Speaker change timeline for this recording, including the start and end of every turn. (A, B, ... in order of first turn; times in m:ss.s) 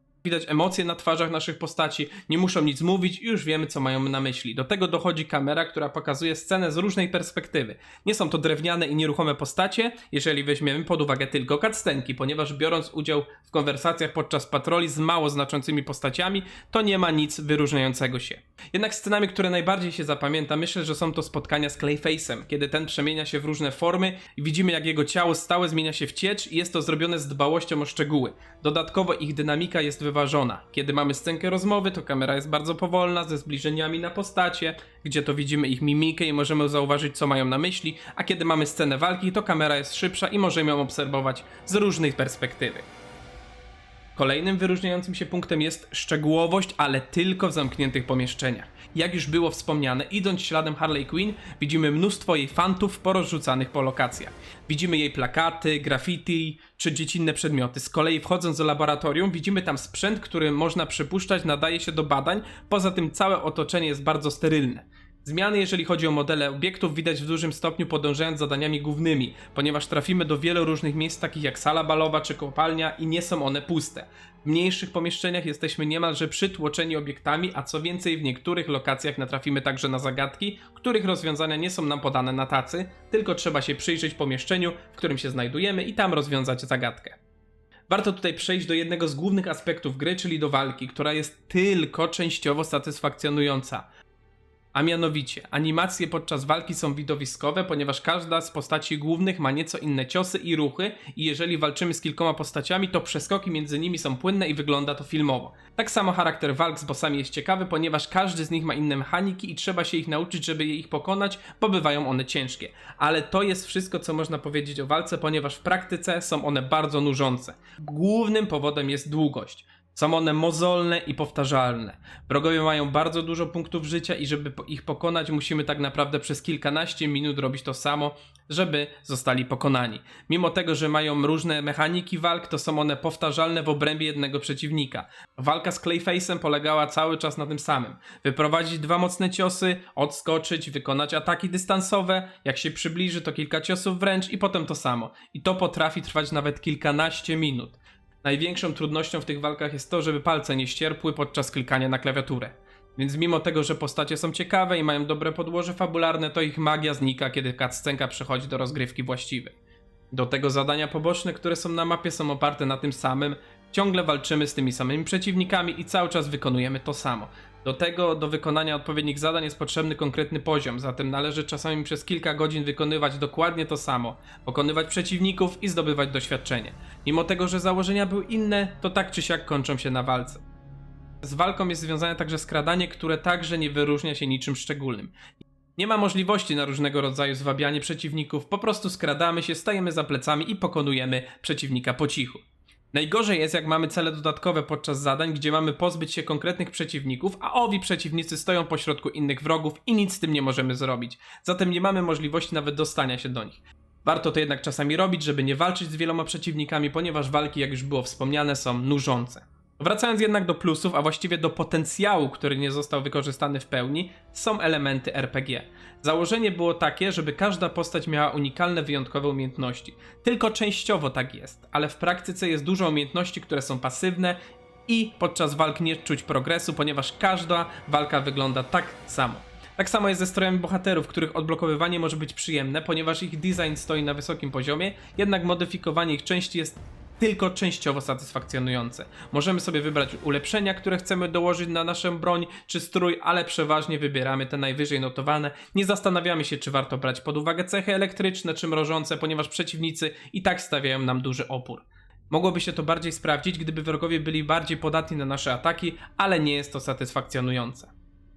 0:00.2-0:42.9 A
0:44.2-1:27.2 A
1:27.9-1:33.8 A
1:34.7-2:39.5 A
2:40.1-3:00.4 A
3:01.2-3:05.2 A
3:05.8-4:17.9 A